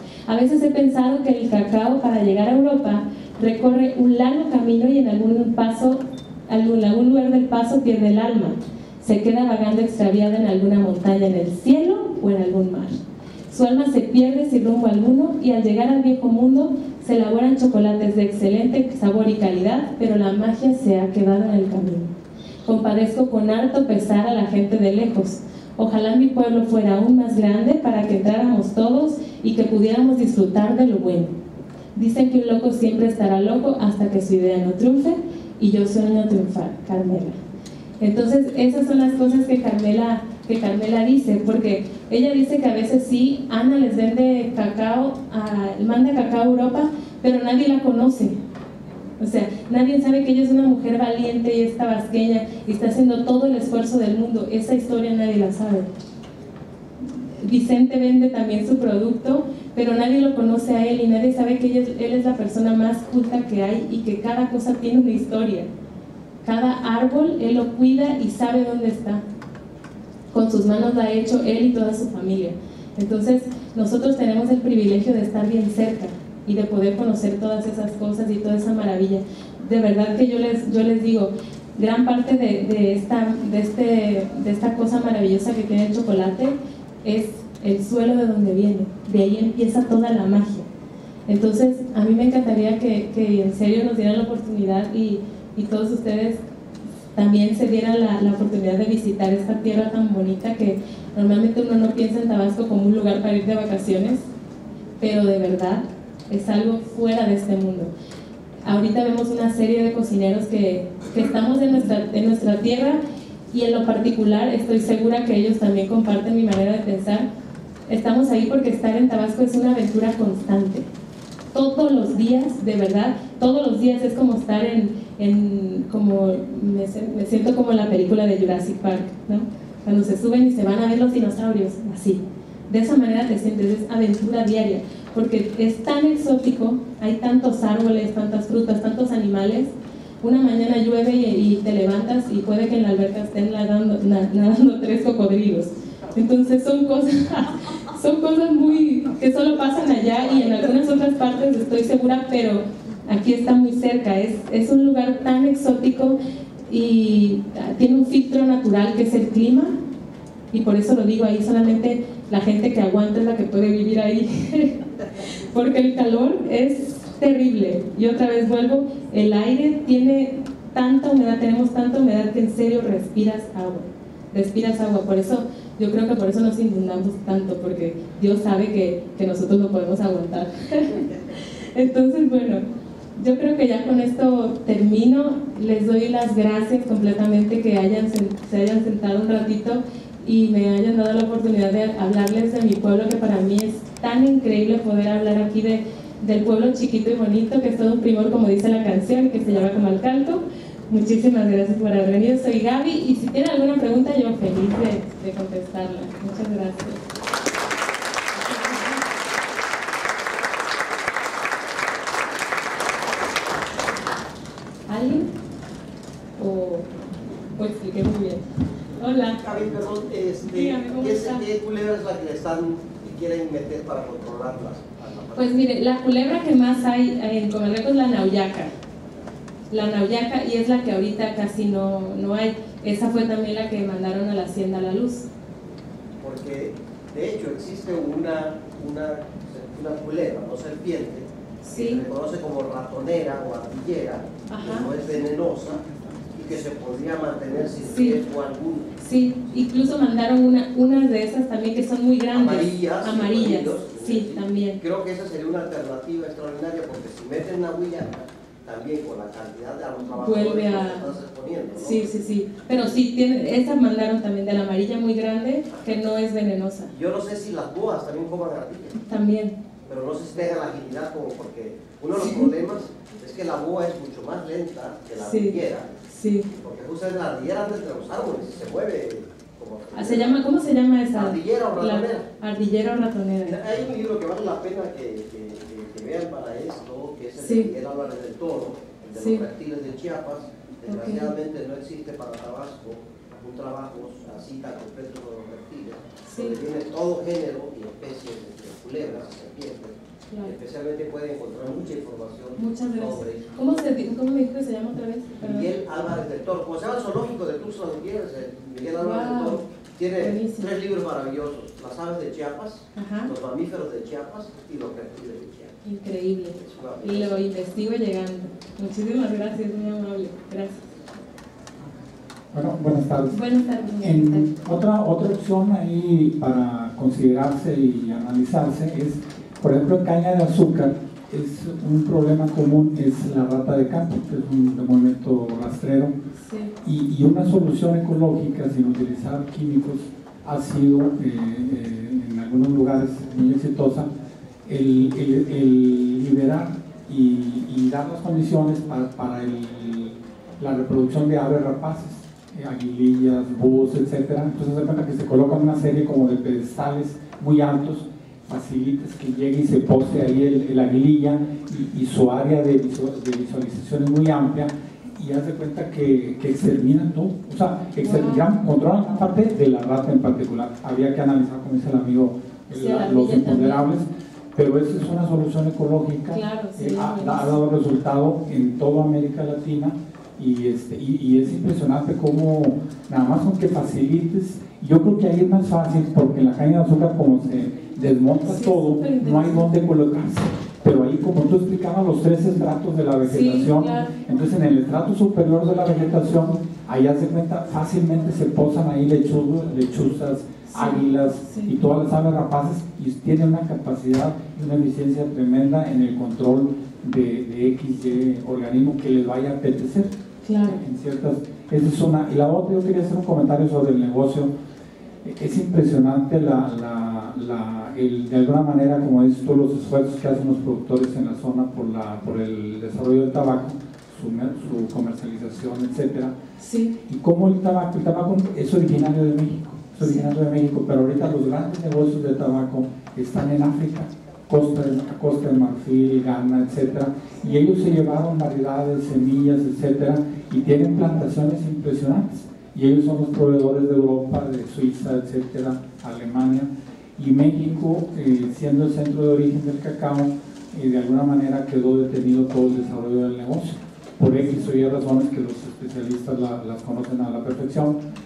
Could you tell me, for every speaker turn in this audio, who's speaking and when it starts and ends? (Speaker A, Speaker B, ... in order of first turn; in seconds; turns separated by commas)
Speaker A: 0.3-13.0, Speaker A: 13.5-22.1, Speaker A: 22.6-31.4, Speaker A: 31.9-37.4, Speaker A: 38.0-48.4, Speaker A: 49.2-55.9, Speaker A: 57.4-65.7, Speaker A: 66.4-69.2, Speaker A: 70.3-90.7, Speaker A: 91.3-96.4, Speaker A: 97.1-104.2, Speaker A: 105.0-107.9, Speaker A: 108.6-113.0, Speaker A: 113.5-117.3, Speaker A: 117.9-120.9, Speaker A: 121.5-159.7, Speaker A: 160.5-164.8, Speaker A: 165.4-182.6, Speaker A: 183.2-207.0, Speaker A: 208.3-209.0, Speaker A: 214.9-215.3, Speaker A: 216.4-216.9, Speaker A: 217.6-218.4, Speaker A: 219.0-219.4, Speaker B: 219.4-225.6, Speaker A: 220.5-221.4, Speaker A: 225.4-228.7, Speaker A: 229.7-235.3, Speaker B: 236.2-248.9, Speaker A: 241.6-242.0, Speaker A: 244.5-244.9, Speaker A: 247.9-248.2, Speaker A: 249.0-254.8, Speaker B: 252.3-262.1, Speaker A: 260.2-261.1, Speaker A: 261.8-266.9, Speaker B: 266.9-269.0, Speaker A: 269.0-269.6, Speaker B: 269.9-275.9, Speaker A: 272.1-272.5, Speaker A: 275.2-275.6, Speaker A: 276.1-276.5, Speaker B: 276.6-280.5, Speaker A: 279.9-283.6, Speaker B: 281.1-282.3, Speaker B: 283.4-303.9, Speaker A: 287.4-287.7, Speaker A: 289.1-289.4, Speaker A: 290.8-291.3, Speaker A: 296.3-296.6, Speaker A: 302.6-305.7, Speaker B: 305.4-315.8, Speaker A: 309.0-309.6, Speaker A: 310.2-310.7, Speaker A: 312.9-313.3, Speaker A: 315.9-320.9, Speaker B: 316.5-317.4, Speaker C: 322.5-323.4, Speaker A: 323.3-324.7, Speaker C: 324.0-336.2, Speaker A: 336.4-336.7, Speaker C: 336.8-344.1, Speaker C: 344.7-410.1, Speaker A: 368.0-368.4, Speaker A: 372.7-373.8, Speaker A: 376.3-377.5, Speaker A: 388.4-389.7, Speaker A: 393.3-394.1, Speaker A: 400.7-401.7, Speaker A: 410.4-410.8, Speaker C: 410.6-414.5, Speaker C: 415.2-426.3, Speaker A: 426.6-426.9, Speaker C: 427.1-458.0, Speaker A: 430.0-430.3